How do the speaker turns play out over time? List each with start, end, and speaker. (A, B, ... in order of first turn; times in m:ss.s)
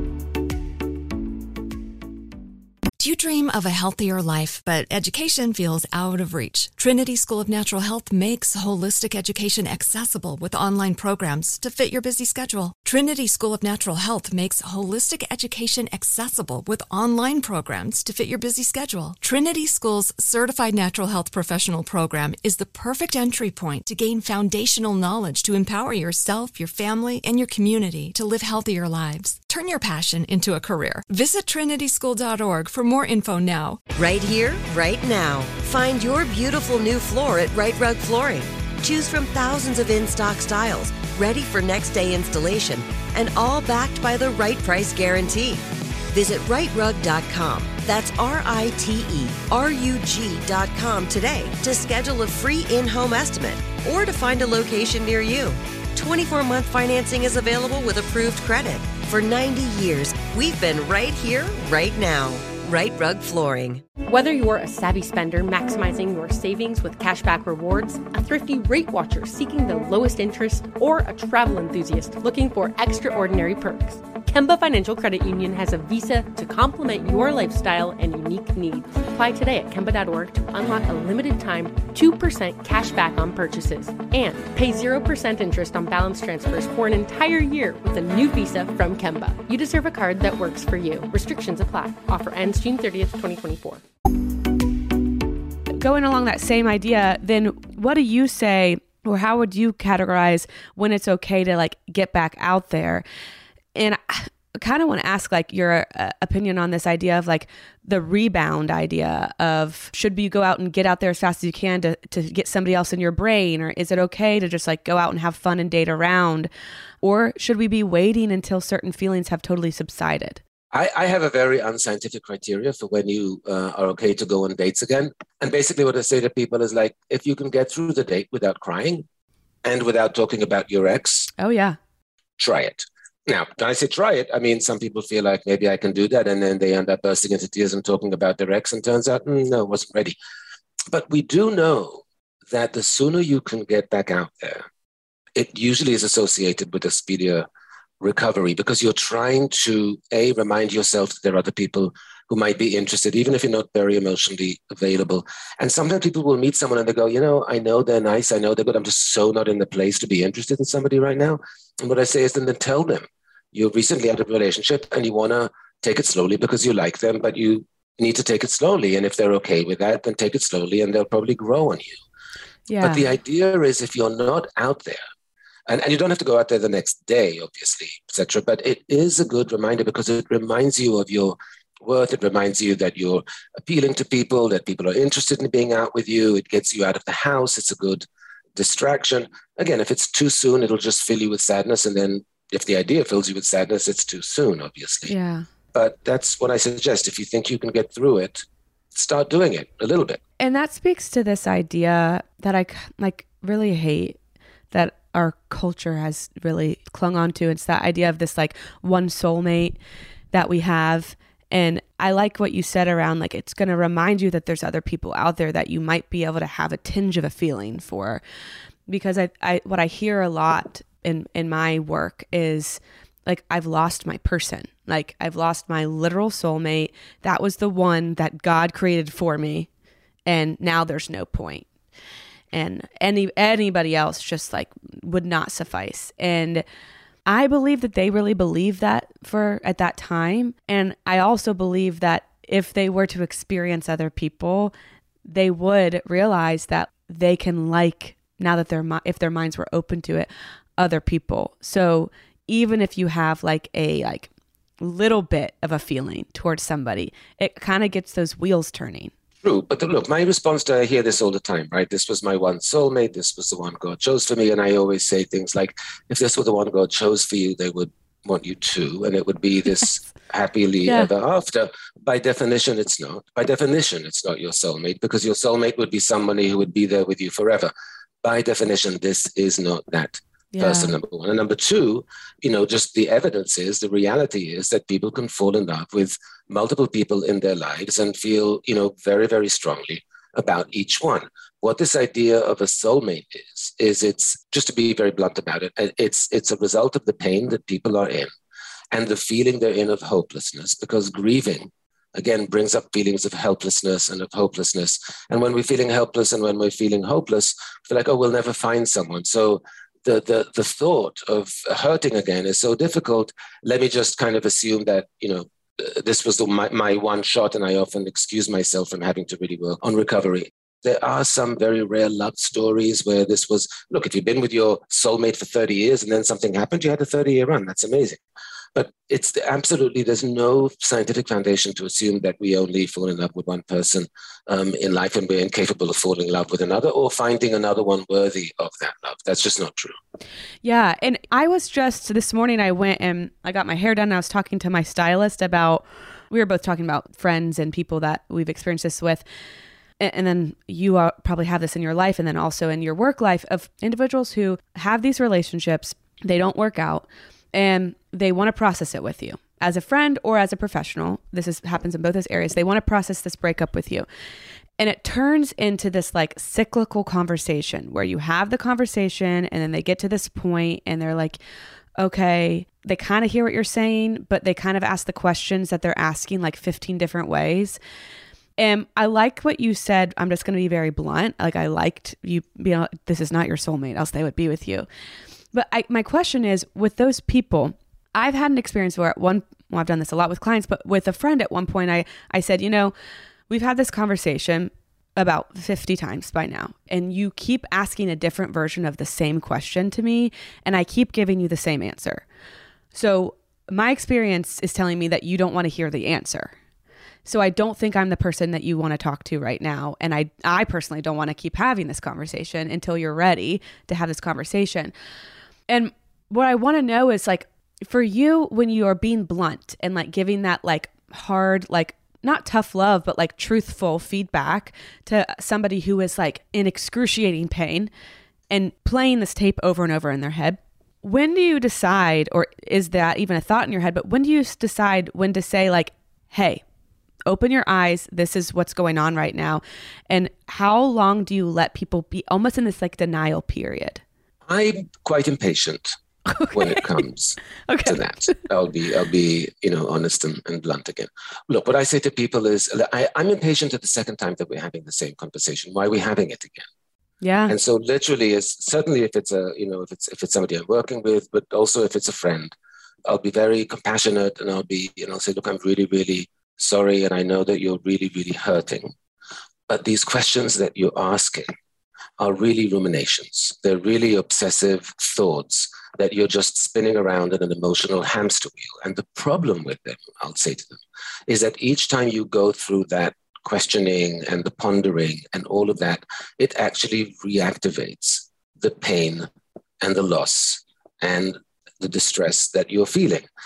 0:03.0-0:33.8 A
0:34.0-1:03.8 B
1:04.1-1:33.8 C
1:35.8-1:43.0 D
1:43.8-1:56.5 D
1:57.0-2:00.4 D
2:00.7-2:09.0 E
2:09.6-2:11.3 E
2:11.4-2:11.8 D
2:12.4-2:20.2 E
2:20.9-2:24.7 E
2:25.4-2:27.5 E
2:28.0-2:52.0 E
2:52.7-2:53.1 D
2:52.8-2:55.0 E
2:55.7-3:15.1 E
3:15.1-3:15.4 D
3:15.7-3:20.2 E
3:20.4-3:24.2 D
3:24.7-3:29.8 D
3:30.3-3:38.2 D
3:38.9-3:49.7 D
3:50.3-3:51.7 D
3:52.5-3:56.6 D
3:57.3-4:04.7 D
4:05.3-4:14.3 D
4:14.8-4:19.1 D
4:19.4-4:37.7 E
4:30.8-4:31.1 D
4:38.2-4:58.3 E
4:40.5-4:40.9 D
4:58.9-5:28.2 E
5:28.8-5:40.0 E
5:40.6-5:49.2 D
5:50.0-6:04.1 D
6:04.8-6:11.4 D
6:12.0-6:17.8 D
6:18.6-6:24.9 D
6:25.5-6:32.9 D
6:33.5-6:42.2 D
6:42.9-6:46.5 D
6:47.3-6:54.9 D
6:55.7-7:07.9 D
7:08.5-7:16.6 D
7:17.3-7:24.0 D
7:24.5-7:25.9 E
7:26.3-7:26.9 D
7:26.5-7:36.7 E
7:27.7-7:28.4 D
7:37.2-7:37.5 D
7:37.5-7:42.5 E
7:43.1-7:48.9 E
7:49.7-7:51.5 E
7:52.2-8:09.3 E
8:09.8-8:13.3 E